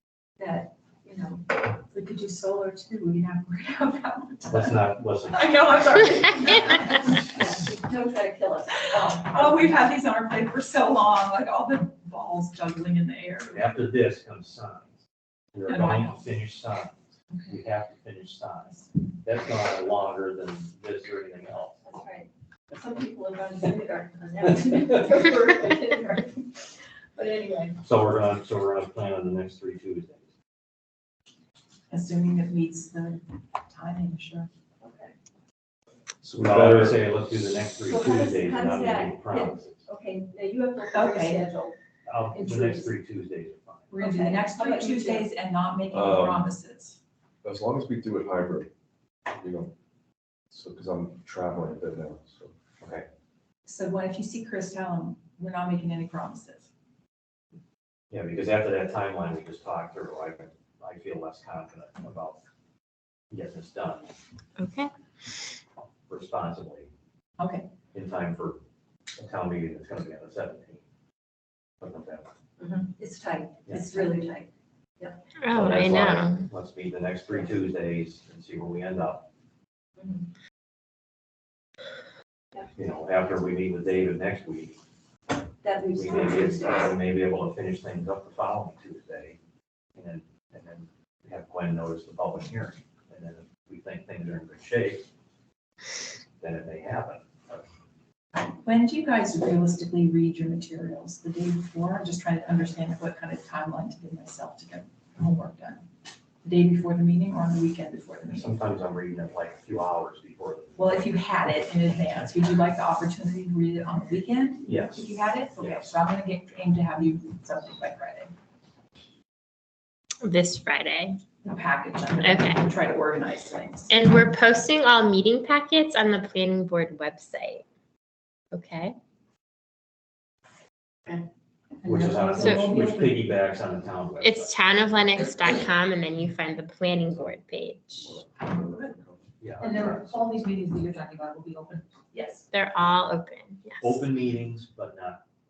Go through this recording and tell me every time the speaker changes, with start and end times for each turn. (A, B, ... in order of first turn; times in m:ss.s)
0:00.4-0:01.5 A
0:01.9-0:04.7 B
0:04.5-0:05.6 C
0:05.3-0:07.6 B
0:07.1-0:09.8 A
0:08.9-0:13.6 B
0:13.5-0:15.0 C
0:15.5-0:17.0 C
0:15.7-0:16.2 B
0:17.5-0:21.8 C
0:21.8-0:27.8 A
0:27.8-0:30.2 C
0:31.9-0:34.5 B
0:34.8-0:35.1 A
0:36.2-0:37.1 D
0:36.4-0:39.8 C
0:37.8-0:41.7 A
0:40.9-0:41.4 B
0:42.1-0:43.9 C
0:42.3-0:42.9 A
0:43.9-0:47.0 B
0:44.0-0:45.3 A
0:45.9-0:46.5 D
0:47.4-0:48.7 D
0:49.3-0:49.7 D
0:50.5-0:52.5 D
0:52.8-0:53.0 C
0:53.6-0:56.7 B
0:58.1-1:02.4 C
1:03.3-1:04.1 C
1:04.6-1:05.5 E
1:06.1-1:06.9 C
1:07.4-1:07.7 B
1:07.9-1:08.6 C
1:09.2-1:10.8 C
1:11.8-1:12.3 C
1:12.6-1:14.5 A
1:13.6-1:14.2 C
1:15.4-1:16.5 E
1:15.5-1:19.3 C
1:20.0-1:20.3 A
1:22.7-1:24.8 C
1:25.6-1:26.9 A
1:25.9-1:29.4 C
1:30.0-1:35.0 C
1:36.4-1:37.6 C
1:38.4-1:45.8 B
1:46.4-1:48.5 B
1:48.3-1:51.1 C
1:50.8-1:58.3 B
1:54.6-1:55.9 C
2:00.2-2:01.2 E
2:01.4-2:04.1 B
2:02.2-2:02.6 E
2:03.9-2:07.6 E
2:08.5-2:09.0 E
2:11.8-2:12.8 B
2:11.8-2:15.0 C
2:12.4-2:12.7 E
2:14.2-2:18.2 E
2:18.0-2:19.3 D
2:19.4-2:20.3 C
2:19.6-2:22.0 F
2:22.5-2:24.1 E
2:23.8-2:25.2 C